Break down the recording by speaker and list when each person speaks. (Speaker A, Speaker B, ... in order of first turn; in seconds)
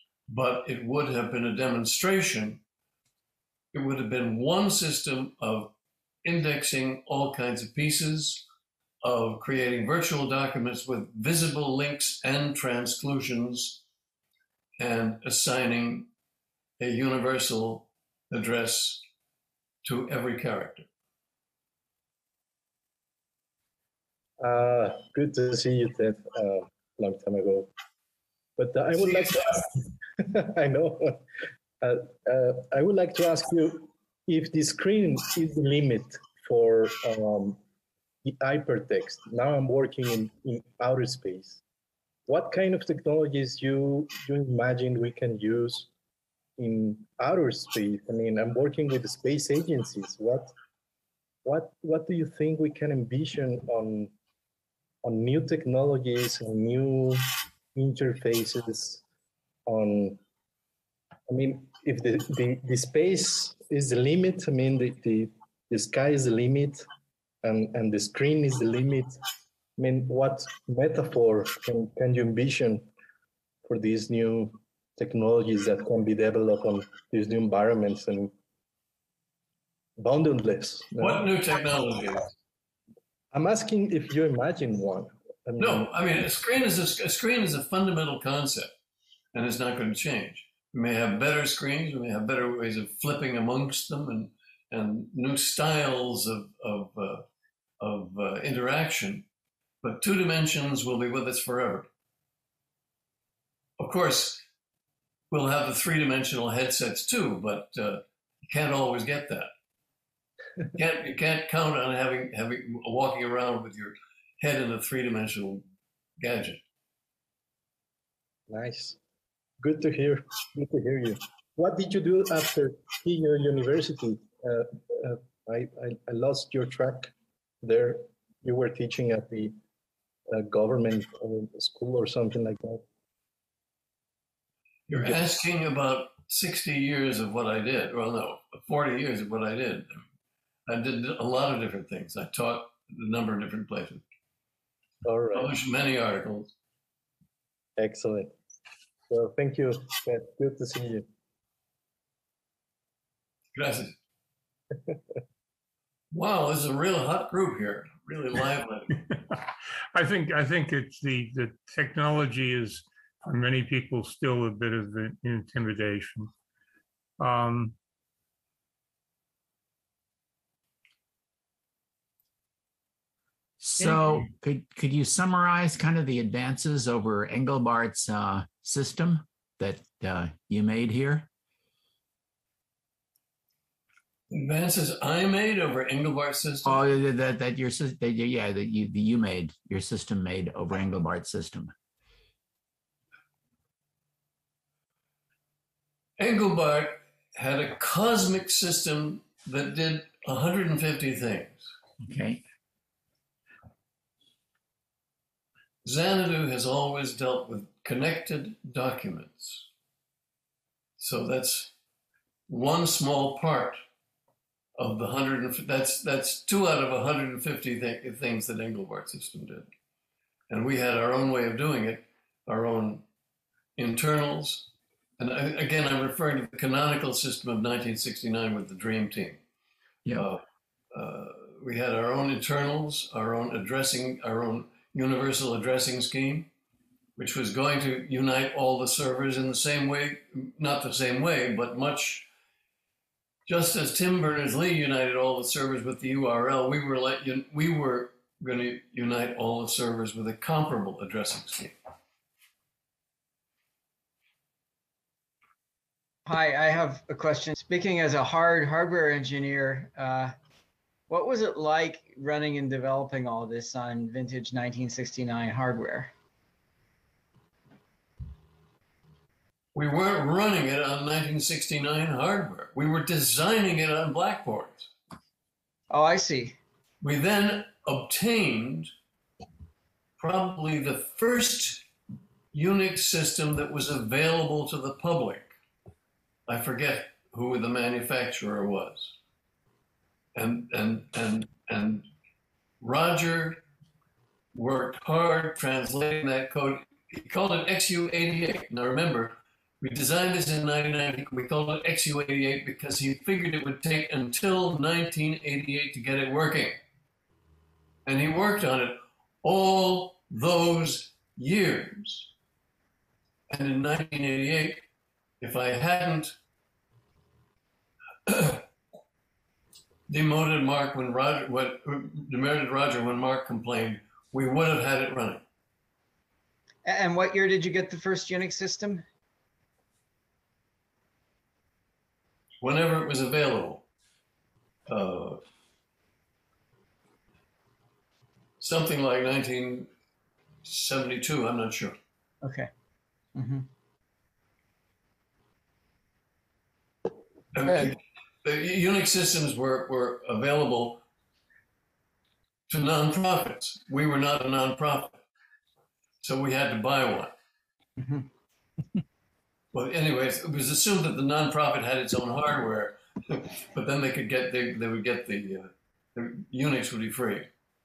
Speaker A: 0.3-2.6, 3.7-5.7, 6.2-8.5, 9.0-13.8, 14.8-16.1, 16.8-19.0, 19.8-20.9, 28.9-29.7, 81.0-82.3, 85.6-88.7, 89.3-97.2, 97.8-99.3, 99.8-101.9, 103.8-104.4, 105.3-109.5, 110.7-115.6, 116.2-116.6, 134.9-140.0, 140.7-144.0, 145.3-146.5, 153.6-153.9, 156.1-158.9, 184.3-186.8, 196.2-201.7, 205.8-209.7, 211.0-211.7, 212.5-213.8, 214.8-219.7, 220.5-223.0, 223.8-224.7, 225.2-229.4, 230.1-230.4, 230.9-236.5, 237.2-242.3, 243.5-251.8, 269.8-274.9, 277.0-278.9, 280.2-281.8, 282.5-285.5, 286.5-289.1, 290.4-292.1, 292.8-293.6, 294.5-306.8, 308.1-312.3, 313.5-314.8, 315.4-316.4, 318.3-318.6, 320.1-325.4, 332.6-333.9, 334.9-335.4, 338.6-339.9, 340.6-342.0, 347.5-351.0, 352.7-355.2, 356.2-357.3, 359.7-367.5
Speaker B: 24.4-27.7, 28.6-31.2, 31.8-37.6, 38.2-41.6, 42.3-45.9, 46.6-50.5, 51.5-54.1, 55.0-59.0, 59.7-60.2, 61.3-66.9, 67.4-69.2, 69.8-72.9, 73.7-78.3, 80.0-81.3, 83.3-85.9, 118.5-119.0, 119.6-127.1, 127.6-129.6, 130.3-132.8, 134.9-135.2, 145.0-145.5, 147.8-148.3, 149.1-151.1
Speaker C: 159.0-159.4, 159.9-166.3, 167.2-167.8
Speaker D: 173.6-181.3, 186.7-191.7, 202.0-202.4
Speaker E: 256.3-260.4, 261.1-266.1, 275.9-276.6, 326.9-329.1, 342.4-342.7, 343.4-343.7, 358.0-358.2